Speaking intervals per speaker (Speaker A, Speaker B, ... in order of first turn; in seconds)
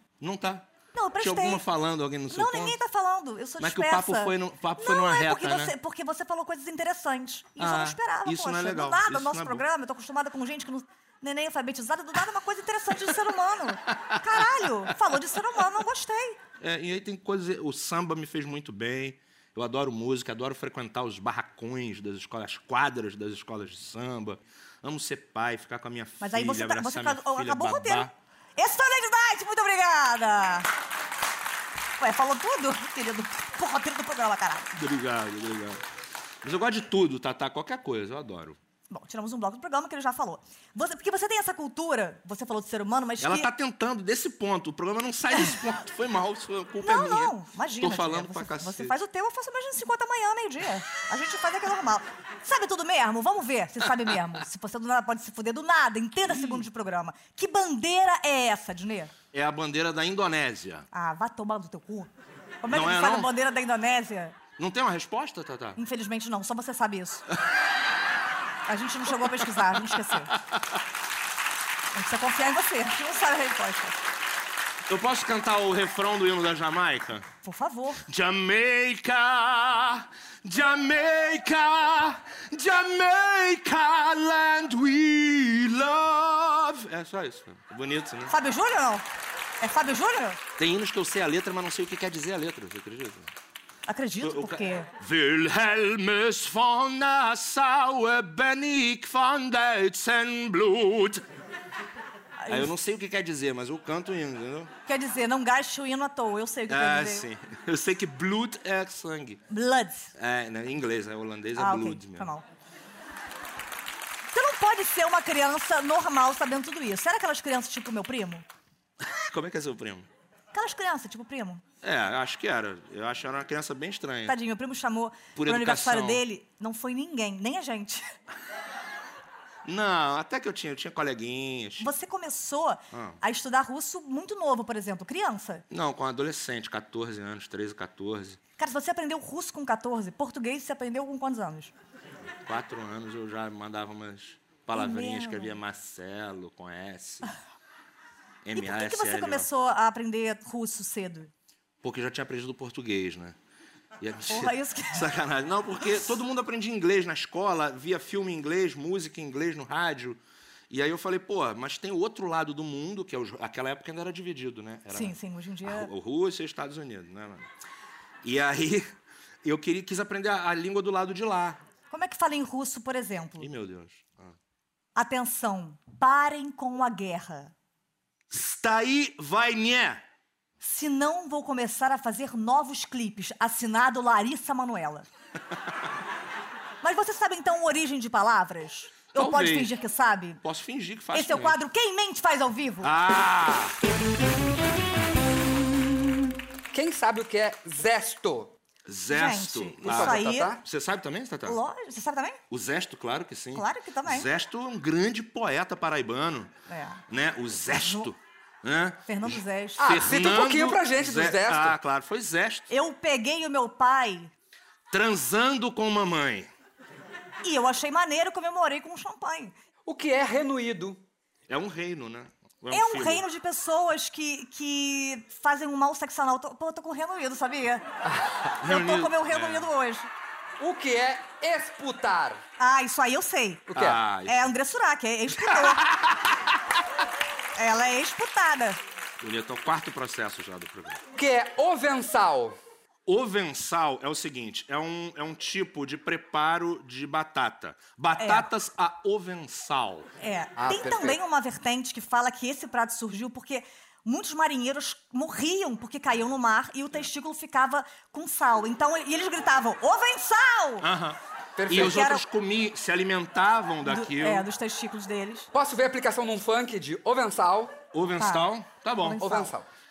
Speaker A: 0.2-2.8, 3.6-5.7, 7.6-9.6, 13.9-14.5, 16.6-28.1, 34.7-35.8, 36.4-38.6, 43.2-49.0, 56.2-56.7, 59.3-60.9, 62.7-63.3, 64.6-65.8, 69.9-70.6, 74.9-77.3, 78.0-88.3, 90.6-93.3, 94.2-101.2, 102.5-104.7, 106.7-109.4, 110.1-112.3, 119.0-120.1, 121.8-124.4, 125.3-126.2, 129.6-131.9, 132.9-133.2, 135.7-138.4, 142.4-147.3, 148.4-149.5, 151.8-153.4, 154.0-167.5, 168.2-171.6, 173.4-174.3, 178.3-180.0, 189.1-189.7, 190.4-191.6, 192.8-193.8, 198.8-201.6, 202.5-206.5, 207.1-212.7, 214.9-216.5, 221.5-223.2, 228.6-229.7, 233.7-234.5, 235.4-236.4, 239.2-241.0, 243.1-250.1, 260.8-264.5, 267.9-269.2
Speaker B: 0.9-1.6, 2.3-16.4, 26.2-30.7, 32.0-34.7, 38.9-43.5, 46.8-59.1, 60.9-62.1, 62.6-64.4, 65.8-67.2, 68.7-70.3, 71.9-74.0, 77.4-78.0, 88.3-89.0, 89.6-90.4, 93.9-94.9, 102.4-102.7, 104.8-107.2, 109.5-110.1, 111.5-112.4, 114.3-118.5, 120.5-121.6, 124.2-128.1, 131.8-135.6, 138.6-141.7, 144.7-145.6, 148.6-151.3, 154.3-155.1, 164.9-165.9, 171.9-173.5, 174.9-177.5, 180.6-185.1, 186.8-190.4, 191.1-192.9, 199.1-200.5, 201.4-202.4, 203.5-204.3, 206.7-207.0, 207.7-208.1, 209.1-209.9, 212.7-214.3, 217.4-219.6, 222.7-227.8, 228.6-230.1, 232.6-233.7, 234.2-235.9, 237.6-238.8, 248.2-248.5, 250.2-260.9, 261.7-262.2, 263.8-265.5, 268.2-268.5, 269.0-269.5
Speaker C: 196.7-198.5, 199.8-200.6, 209.8-211.8, 219.8-221.0, 230.6-232.4, 233.7-234.0, 241.1-242.6, 250.6-251.2, 261.6-262.0, 265.5-267.7, 269.2-269.7